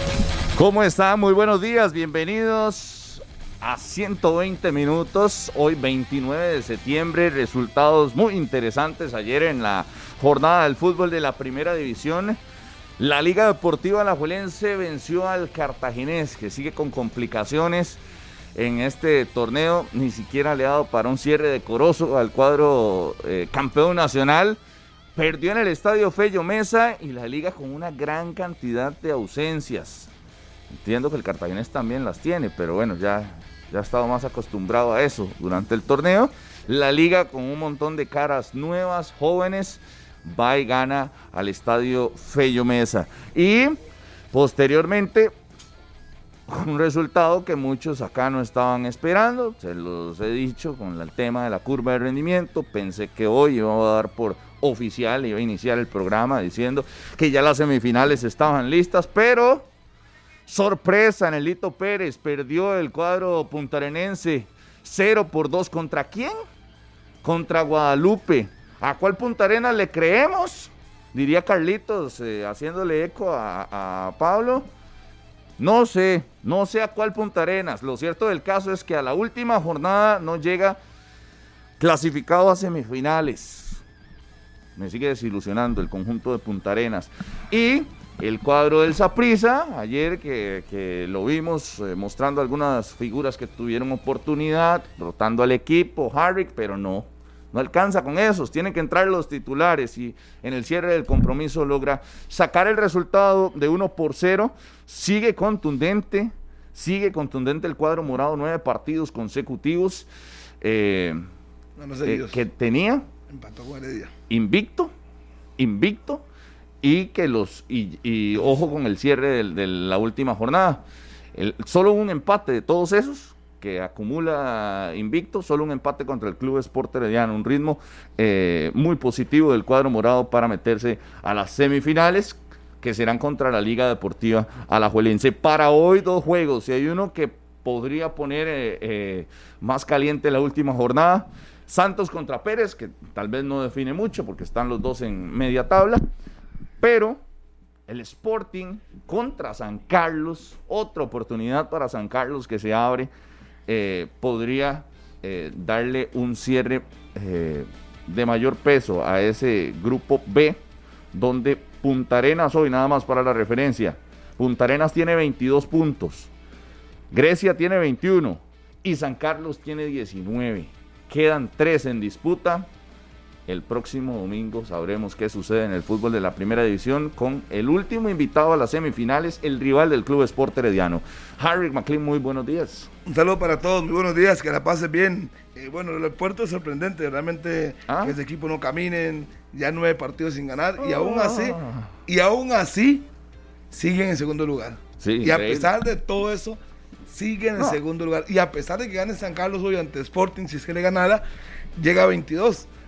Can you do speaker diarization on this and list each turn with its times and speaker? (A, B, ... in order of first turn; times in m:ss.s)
0:00.6-0:12.4 A
0:13.0-0:18.0 A
0:18.6-0:24.6 A
0:25.2-0:30.1 A
0:30.7-0:43.8 A
0:44.3-0:45.3 A
0:46.5-0:59.7 A
1:00.5-1:06.4 A
1:07.2-1:14.7 A
1:15.6-1:20.8 A
1:21.8-1:23.8 A
1:24.8-1:50.1 A
1:50.6-1:51.2 A
1:51.8-1:52.4 B
1:52.0-1:53.1 A
1:53.3-1:54.1 B
1:54.3-1:54.9 A
1:55.6-1:56.2 A
1:56.8-2:00.8 A
2:01.4-2:26.1 A
2:26.8-2:27.2 A
2:27.9-2:33.1 A
2:33.7-2:40.6 A
2:41.1-2:46.3 A
2:47.1-2:52.7 A
2:53.5-3:02.9 A
3:03.1-3:13.1 B
3:07.9-3:08.2 A
3:10.8-3:11.9 A
3:13.7-3:21.2 B
3:15.0-3:15.7 A
3:21.8-3:22.7 B